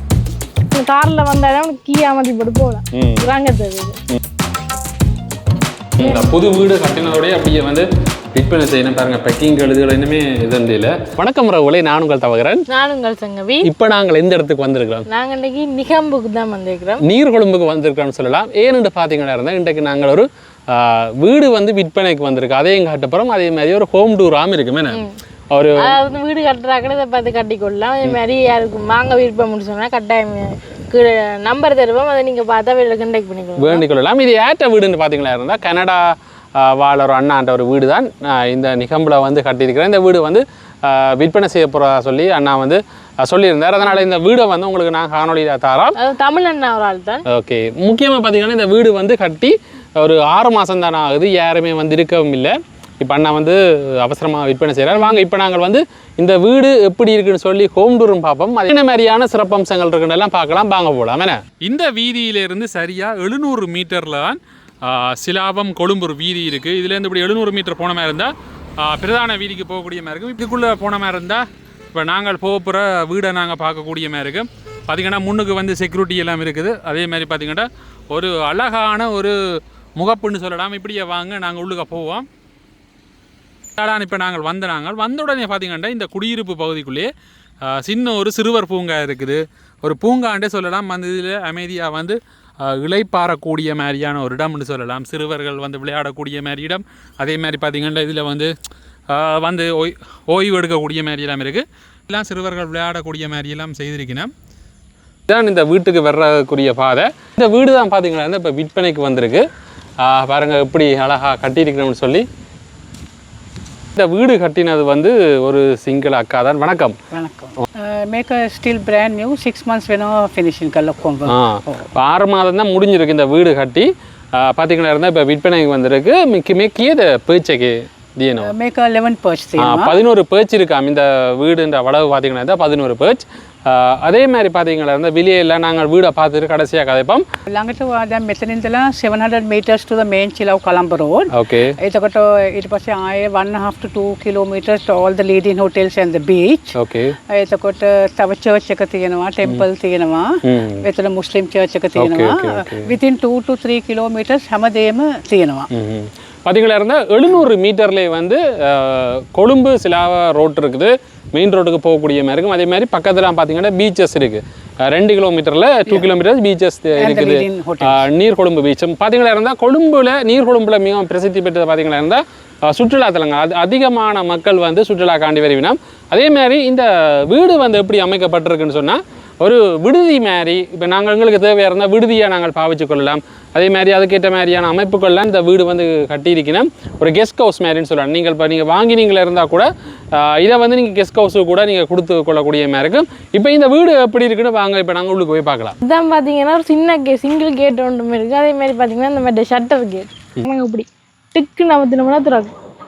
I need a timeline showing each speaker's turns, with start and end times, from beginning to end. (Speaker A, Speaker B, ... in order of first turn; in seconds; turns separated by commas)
Speaker A: 0.7-4.0, Speaker B: 2.9-3.3, Speaker B: 6.0-12.7, Speaker A: 6.0-6.2, Speaker A: 12.7-13.7, Speaker B: 13.6-15.1, Speaker A: 15.1-17.0, Speaker B: 17.0-26.0, Speaker A: 25.8-33.9, Speaker B: 33.6-46.0, Speaker A: 46.0-47.2, Speaker B: 47.3-82.3, Speaker A: 54.9-55.2, Speaker B: 83.8-87.1, Speaker B: 87.6-98.5, Speaker B: 99.1-104.3, Speaker B: 105.3-109.5, Speaker B: 110.0-112.2, Speaker B: 114.0-117.0, Speaker C: 117.1-121.9, Speaker B: 121.3-128.5, Speaker C: 128.4-129.9, Speaker B: 129.6-137.2, Speaker C: 137.5-146.8, Speaker B: 141.3-141.8, Speaker B: 146.8-147.2, Speaker C: 147.3-155.7, Speaker B: 150.4-150.8, Speaker B: 152.0-152.9, Speaker B: 155.7-195.8, Speaker C: 167.0-168.1, Speaker A: 195.8-202.5